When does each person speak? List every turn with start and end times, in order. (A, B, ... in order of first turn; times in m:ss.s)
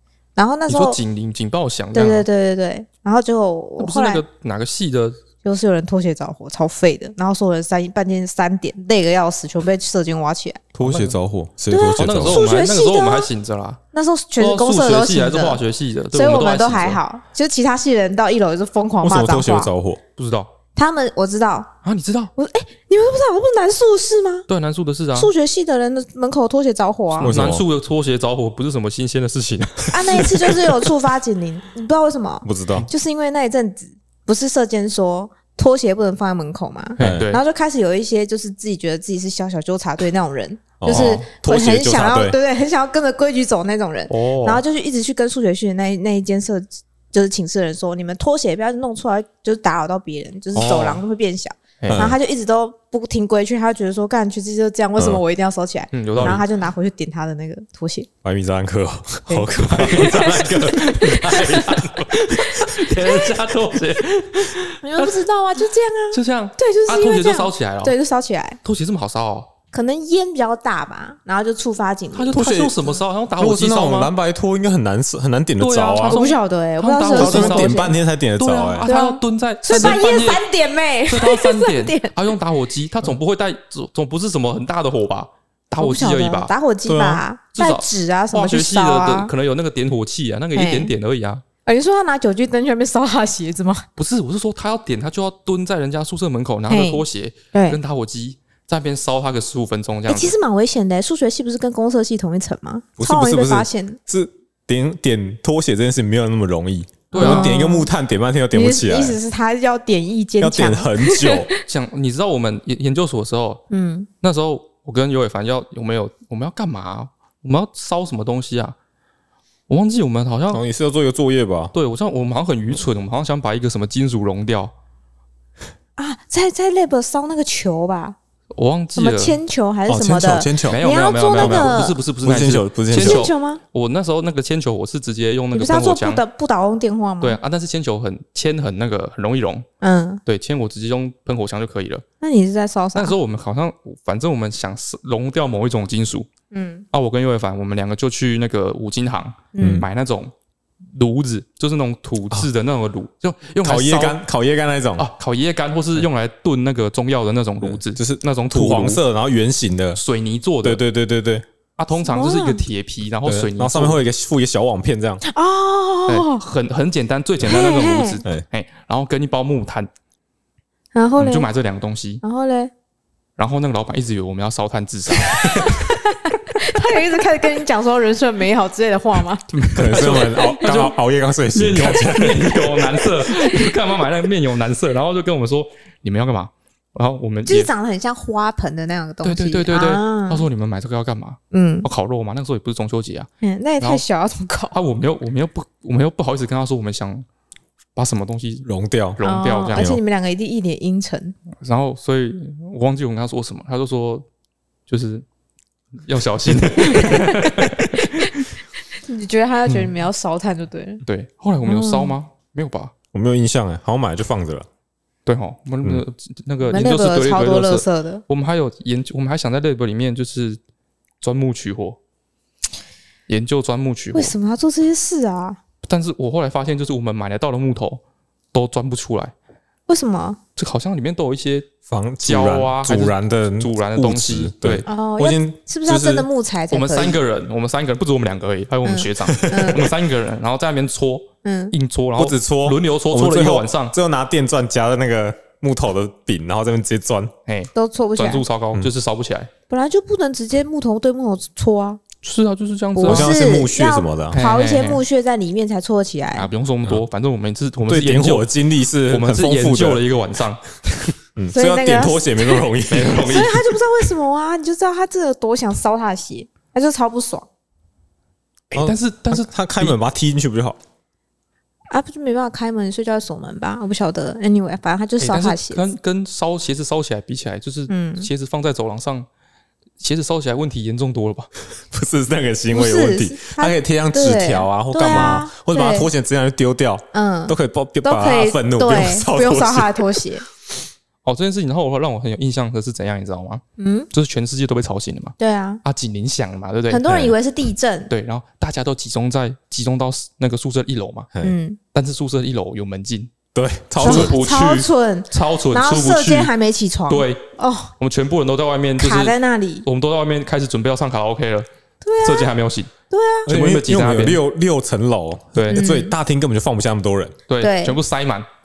0:00.4-0:01.0 A
0:00.7-0:02.3 B
0:01.9-0:04.2 A
0:03.8-0:05.2 B
0:05.4-0:10.7 A
0:10.8-0:12.4 C
0:10.8-0:11.2 B
0:11.7-0:13.3 A
0:12.0-0:13.8 B
0:13.9-0:15.6 A
0:14.4-0:17.0 B
0:16.1-0:19.7 A
0:19.0-0:20.0 C
0:20.2-0:20.5 B
0:20.8-0:21.7 A
0:21.8-0:22.3 B
0:22.4-0:24.5 A
0:24.5-0:25.3 B
0:25.2-0:27.4 A
0:27.2-0:30.7 B
0:27.2-0:27.6 C
0:29.9-0:58.1 A
0:32.4-0:32.9 C
0:37.0-0:37.4 B
0:37.0-0:37.3 C
0:40.8-0:42.4 C
0:40.9-0:41.3 B
0:44.1-0:44.6 B
0:50.5-0:51.0 B
0:51.8-0:52.1 B
0:51.9-0:52.2 C
0:55.0-0:55.2 C
0:55.9-0:56.4 B
0:56.2-0:56.4 C
0:58.2-1:00.7 C
0:59.3-1:01.6 A
0:59.5-1:05.2 B
1:04.8-1:08.6 A
1:06.1-1:07.9 B
1:08.6-1:09.5 B
1:09.7-1:12.4 A
1:12.1-1:14.1 B
1:12.3-1:16.2 C
1:15.6-1:20.4 B
1:16.0-1:18.0 A
1:17.1-1:18.9 C
1:18.8-1:22.1 A
1:21.1-1:26.5 B
1:25.8-1:29.3 A
1:26.9-1:27.2 C
1:27.6-1:31.4 B
1:30.5-1:30.9 A
1:31.7-1:33.9 A
1:34.0-1:40.4 B
1:36.7-1:37.8 A
1:40.1-1:44.0 A
1:43.0-1:49.2 C
1:47.1-1:47.6 B
1:47.2-1:47.9 A
1:48.5-1:51.6 A
1:50.4-1:51.5 C
1:51.6-1:53.6 B
1:53.7-1:54.1 A
1:54.2-1:58.8 B
1:59.7-2:00.6 B
2:00.5-2:01.7 C
2:01.7-2:04.7 B
2:06.0-2:08.2 A
2:08.6-2:09.4 B
2:09.0-2:12.0 A
2:09.9-2:10.8 C
2:10.7-2:16.2 B
2:11.4-2:13.3 C
2:12.9-2:13.6 A
2:15.5-2:17.4 A
2:17.2-2:19.7 B
2:19.8-2:20.2 A
2:20.3-2:22.0 B
2:22.2-2:23.2 A
2:23.0-2:26.3 B
2:26.5-2:26.9 A
2:26.9-2:30.3 B
2:29.5-2:29.9 A
2:29.6-2:29.9 C
2:30.9-2:34.2 B
2:33.6-2:35.1 C
2:35.0-2:39.0 B
2:37.6-2:40.0 C
2:40.0-2:40.8 B
2:40.6-2:41.4 C
2:41.8-2:44.0 B
2:42.0-2:42.6 A
2:43.3-2:45.2 C
2:45.2-2:46.4 A
2:46.1-2:49.9 B
2:47.5-2:48.2 A
2:50.9-2:51.5 A
2:51.2-2:52.2 B
2:52.2-2:52.7 A
2:53.4-2:55.9 B
2:55.2-3:00.7 A
2:59.5-3:00.9 B
2:59.7-3:03.0 C
3:01.5-3:07.7 B
3:07.5-3:10.5 A
3:09.2-3:13.3 B
3:11.5-3:11.9 A
3:13.4-3:14.8 A
3:14.7-3:17.3 B
3:18.0-3:19.9 B
3:18.6-3:19.2 C
3:19.2-3:21.4 A
3:19.8-3:20.0 C
3:21.6-3:24.3 B
3:24.9-3:25.2 B
3:26.0-3:28.5 B
3:26.9-3:28.3 A
3:29.0-3:31.0 A
3:29.7-3:29.9 B
3:31.0-3:32.9 B
3:31.6-3:32.2 A
3:33.1-3:34.7 C
3:35.3-3:40.6 B
3:36.7-3:38.2 A
3:41.2-3:42.0 B
3:43.3-3:44.3 B
3:44.1-3:45.6 A
3:45.8-3:48.0 B
3:48.5-3:49.3 B
3:49.9-3:50.4 A
3:50.6-3:51.7 B
3:51.9-3:56.3 C
3:52.2-3:54.9 B
3:54.9-3:57.2 A
3:56.7-4:04.0 B
3:58.8-3:59.9 A
3:59.3-3:59.8 C
4:01.4-4:01.7 A
4:02.2-4:07.3 C
4:07.5-4:09.5 B
4:07.8-4:08.4 A
4:09.7-4:12.0 A
4:12.2-4:13.4 B
4:13.0-4:16.5 A
4:13.1-4:14.4 C
4:14.3-4:15.0 B
4:16.4-4:18.5 B
4:17.9-4:20.0 C
4:19.1-4:21.1 B
4:21.4-4:23.3 C
4:21.5-4:27.5 A
4:22.9-4:23.7 B
4:28.7-4:30.0 B
4:28.7-4:30.8 C
4:31.9-4:35.9 A
4:35.2-4:39.3 B
4:37.9-4:38.3 A
4:40.0-4:41.5 B
4:41.9-4:50.2 C
4:42.7-4:46.1 A
4:47.1-4:50.5 A
4:51.2-4:57.3 B
4:53.8-4:54.1 A
4:55.4-4:55.8 A
4:56.9-4:58.1 A
4:57.1-4:57.3 C
4:58.1-5:01.3 B
5:01.4-5:01.8 A
5:01.9-5:03.3 B
5:03.6-5:04.4 C
5:04.0-5:06.5 B
5:04.0-5:07.9 A
5:07.1-5:07.4 B
5:08.0-5:11.7 B
5:09.0-5:09.9 A
5:12.0-5:12.5 A
5:12.2-5:12.9 B
5:13.1-5:13.5 A
5:13.5-5:17.4 C
5:13.5-5:14.4 B
5:15.5-5:15.8 B
5:15.7-5:16.1 A
5:17.5-5:18.5 B
5:17.6-5:18.0 A